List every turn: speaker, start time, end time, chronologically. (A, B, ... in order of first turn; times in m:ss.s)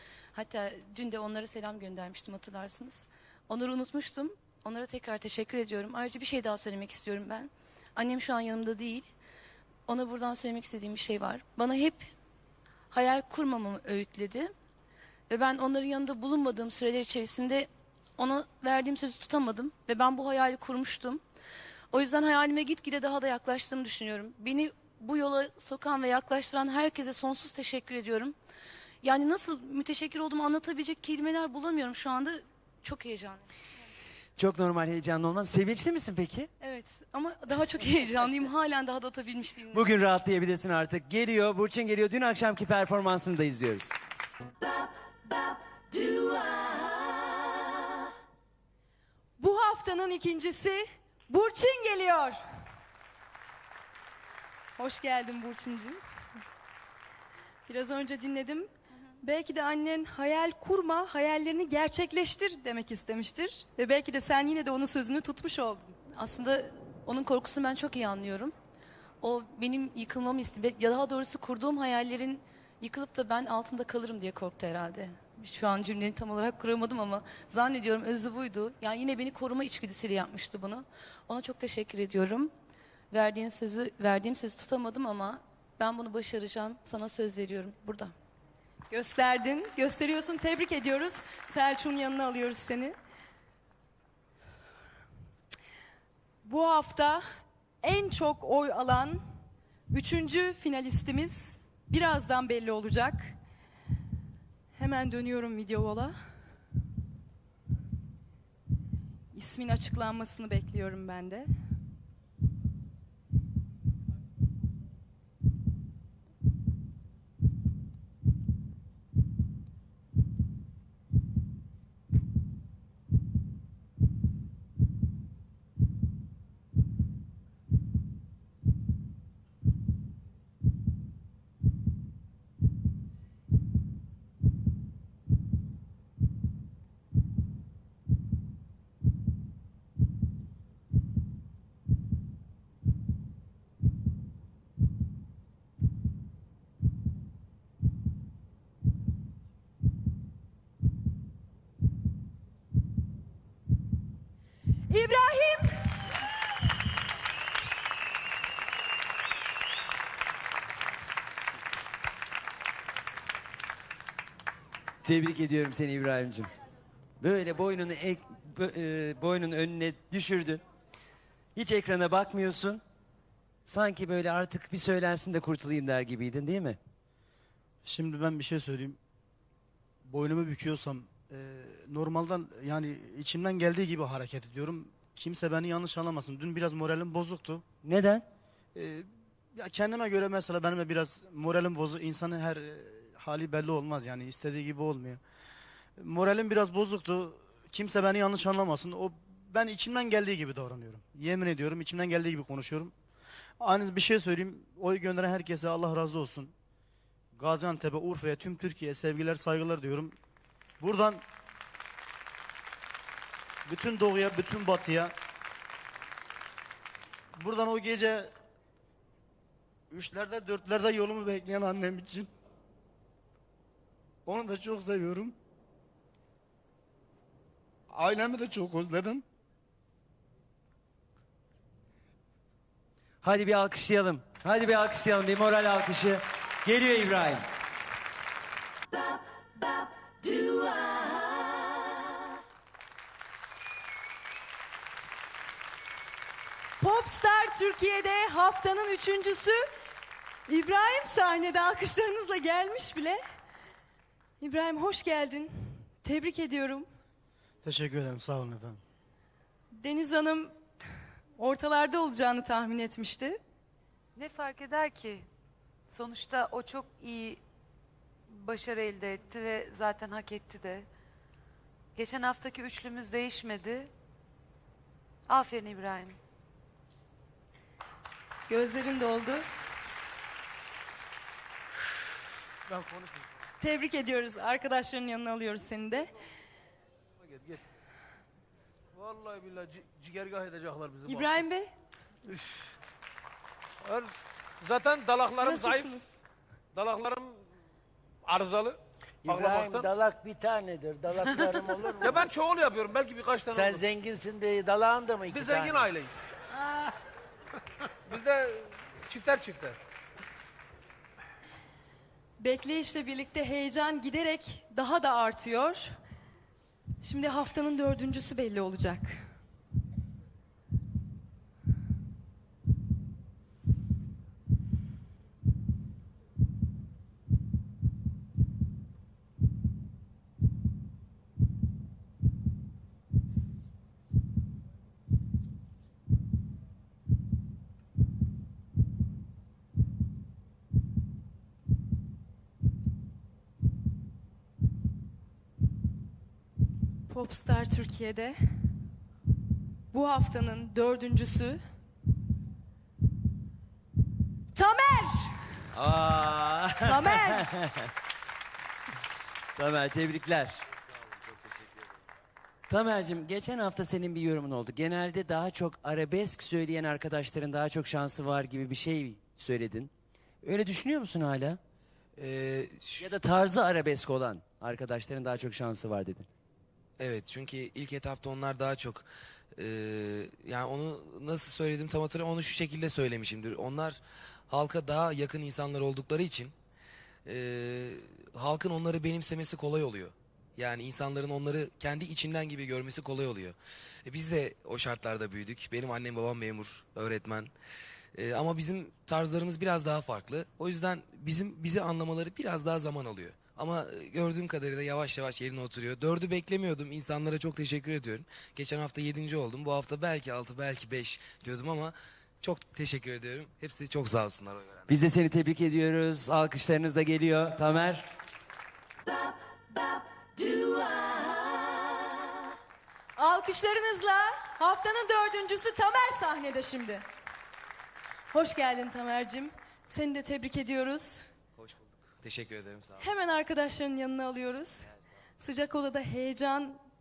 0:00.3-0:09.1 A
0:09.9-0:12.1 A
0:12.9-0:14.5 A
0:15.3-0:21.2 A
0:21.9-0:28.3 A
0:29.0-0:33.4 A
0:34.4-0:36.5 B
0:36.6-0:39.9 A
0:39.7-0:43.9 B
0:49.4-0:52.4 C
0:54.8-0:56.0 C
0:57.7-1:06.0 C
1:06.1-1:08.5 A
1:09.2-1:22.5 A
1:23.1-1:28.1 A
1:28.9-1:33.0 C
1:36.4-1:37.3 C
1:37.8-1:39.2 C
1:39.9-1:43.4 C
1:44.7-1:46.2 C
1:49.3-1:51.5 C
2:34.9-2:36.0 C
2:45.0-2:46.5 B
2:47.2-2:50.6 B
2:51.6-2:52.8 B
2:53.6-2:56.8 B
2:57.8-2:59.0 D
3:00.0-3:07.6 D
3:07.8-3:08.2 B
3:08.7-3:15.2 D
3:16.0-3:22.9 D
3:23.6-3:26.5 D
3:27.3-3:30.2 D
3:30.8-3:31.2 D
3:33.6-3:35.1 D
3:37.4-3:38.3 D
3:39.9-3:42.3 D
3:44.2-3:45.3 D
3:47.9-3:49.2 D
3:53.2-3:57.5 B
4:06.8-4:09.7 C
4:10.5-4:13.2 C
4:14.4-4:16.9 C
4:17.6-4:18.8 D
4:19.8-4:20.6 C
4:21.4-4:23.4 C
4:24.2-4:25.2 E
4:25.9-4:27.4 E
4:28.3-4:30.8 E
4:31.9-4:33.9 E
4:35.3-4:36.2 E
4:38.5-4:39.5 C
4:43.0-4:43.2 F
4:43.6-4:46.1 C
4:47.2-4:47.6 F
4:48.9-4:51.4 F
4:51.0-4:51.7 C
4:52.2-4:52.7 F
4:53.8-4:55.9 F
4:55.4-4:56.2 C
4:56.7-4:57.4 F
4:58.2-4:59.9 F
4:59.2-5:02.3 G
5:02.0-5:03.8 F
5:03.5-5:05.9 G
5:05.3-5:06.2 F
5:08.0-5:09.8 F
5:12.4-5:16.0 C
5:17.0-5:19.3 C
5:47.1-5:48.4 C
5:49.9-5:51.6 C
5:54.5-5:55.5 C
5:55.7-5:57.9 B
5:56.8-5:57.5 C
5:59.6-6:00.6 B
6:02.7-6:11.6 B
6:12.2-6:13.0 H
6:13.0-6:16.3 B
6:17.0-6:26.5 H
6:27.2-6:37.5 H
6:38.1-6:54.9 H
6:54.9-6:58.1 B
7:03.2-7:07.0 C
7:08.3-7:11.2 C
7:11.6-7:13.1 H
7:13.0-7:14.9 C
7:15.4-7:16.8 C